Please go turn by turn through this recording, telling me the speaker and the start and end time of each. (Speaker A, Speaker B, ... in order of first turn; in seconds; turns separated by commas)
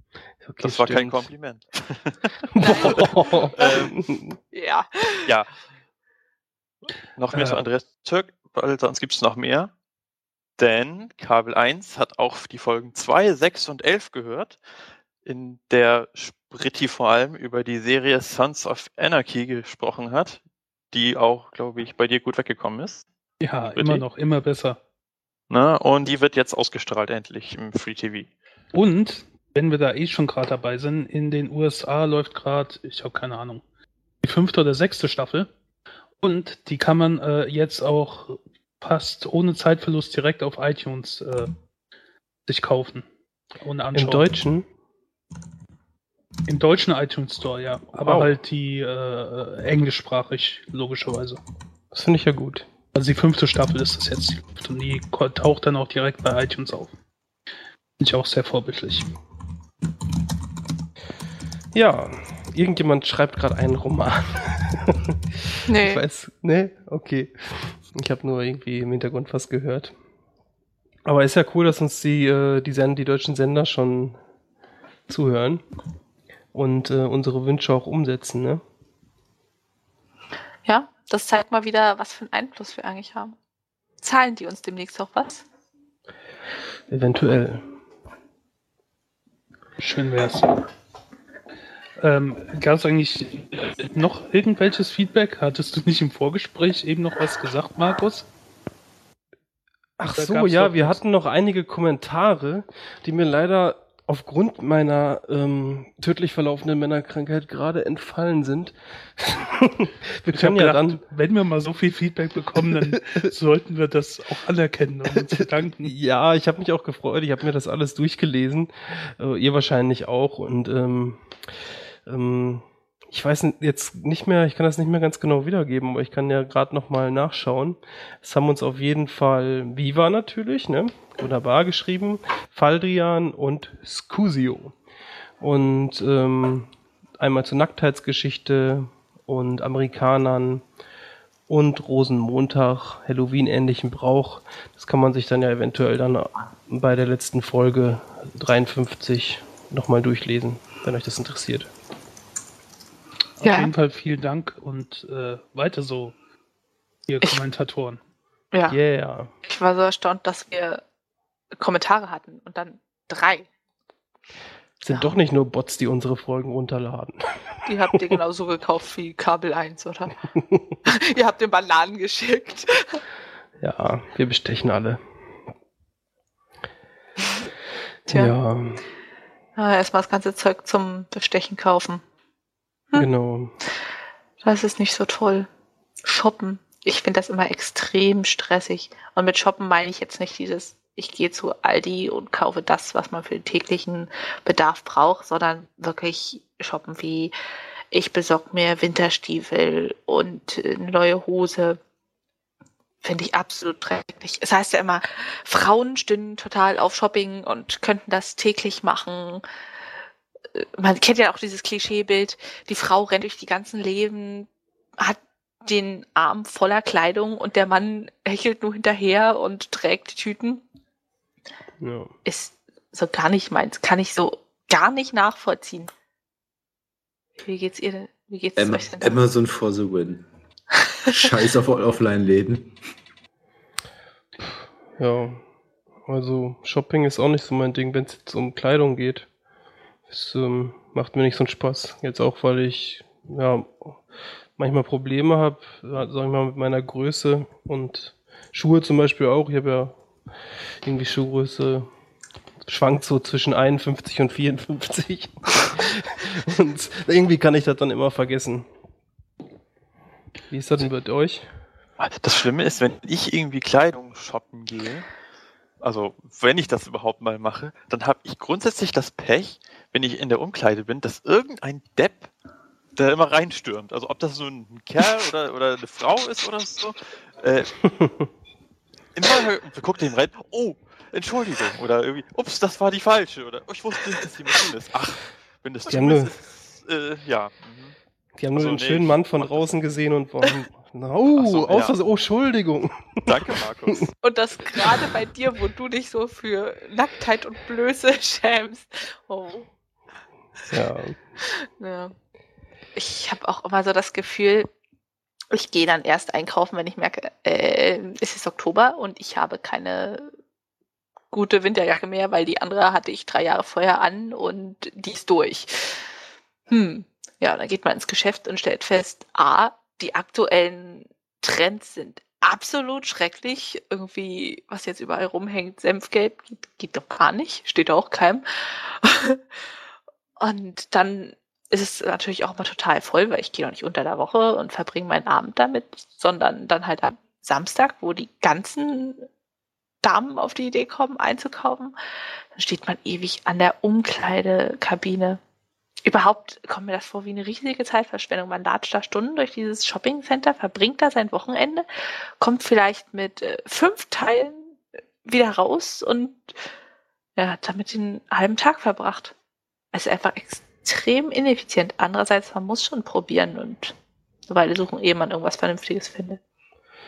Speaker A: 0.4-1.2, Speaker B: 0.6-4.0, Speaker A: 2.5-4.4, Speaker C: 2.6-3.9, Speaker C: 4.5-5.3, Speaker B: 7.2-9.7, Speaker D: 7.3-7.6, Speaker B: 10.6-14.6, Speaker B: 15.2-20.4, Speaker B: 20.9-23.0, Speaker D: 23.4-24.8, Speaker B: 23.7-24.0, Speaker B: 25.5-28.3, Speaker D: 28.7-33.6, Speaker D: 34.2-35.5, Speaker D: 36.2-41.5, Speaker D: 42.5-43.0, Speaker D: 43.6-44.3, Speaker A: 43.9-44.6, Speaker D: 46.5-51.4, Speaker A: 48.0-48.3, Speaker A: 51.9-52.7, Speaker D: 52.9-56.9, Speaker D: 58.0-59.1, Speaker A: 61.7-65.2, Speaker C: 65.7-66.0, Speaker A: 65.7-69.9, Speaker A: 71.0-74.2, Speaker A: 75.1-75.6, Speaker A: 76.5-78.6, Speaker C: 80.7-83.3, Speaker C: 84.0-85.4, Speaker A: 86.9-87.6, Speaker D: 89.8-90.7, Speaker D: 92.0-98.3, Speaker A: 100.0-111.0, Speaker D: 100.1-101.0, Speaker D: 110.3-115.9, Speaker A: 112.6-112.9, Speaker A: 115.8-121.2, Speaker A: 122.0-134.7, Speaker A: 135.4-140.6, Speaker A: 141.5-151.7, Speaker D: 153.4-156.2, Speaker C: 153.4-153.7, Speaker D: 157.1-158.0, Speaker C: 158.5-158.8, Speaker A: 158.7-159.3, Speaker C: 159.4-160.8, Speaker C: 161.6-163.5, Speaker A: 164.8-168.2, Speaker C: 164.9-165.2, Speaker C: 167.7-170.2, Speaker A: 170.3-170.6, Speaker C: 170.8-173.0, Speaker A: 173.6-175.0, Speaker A: 178.1-178.8, Speaker C: 179.6-182.0, Speaker A: 182.9-183.5, Speaker C: 184.4-185.5, Speaker C: 186.0-197.3, Speaker C: 197.9-201.8, Speaker C: 203.0-209.4, Speaker C: 210.5-220.6, Speaker A: 221.8-222.1, Speaker C: 222.2-225.9, Speaker C: 227.4-229.2, Speaker E: 228.6-230.2, Speaker E: 231.1-232.7, Speaker A: 235.0-235.4, Speaker A: 236.1-239.3, Speaker A: 240.1-244.0, Speaker A: 244.6-250.0, Speaker A: 250.8-251.9, Speaker A: 252.7-258.6, Speaker A: 260.5-261.4, Speaker B: 262.0-265.1, Speaker B: 265.8-272.3, Speaker B: 272.9-277.7, Speaker A: 278.0-278.2, Speaker B: 279.1-287.9, Speaker A: 285.9-286.3, Speaker A: 288.4-293.5, Speaker B: 288.5-290.0, Speaker B: 291.3-291.9, Speaker B: 293.2-294.1, Speaker C: 294.2-299.7, Speaker A: 300.7-301.2, Speaker C: 301.4-302.1, Speaker C: 302.9-304.7, Speaker C: 305.5-310.3, Speaker C: 311.3-316.1, Speaker C: 316.7-329.4, Speaker C: 330.4-339.2, Speaker C: 340.0-341.9, Speaker C: 342.5-345.4, Speaker C: 346.0-351.9, Speaker C: 352.4-354.7, Speaker C: 355.2-356.5, Speaker C: 357.4-359.3, Speaker C: 359.9-363.9, Speaker C: 364.5-366.4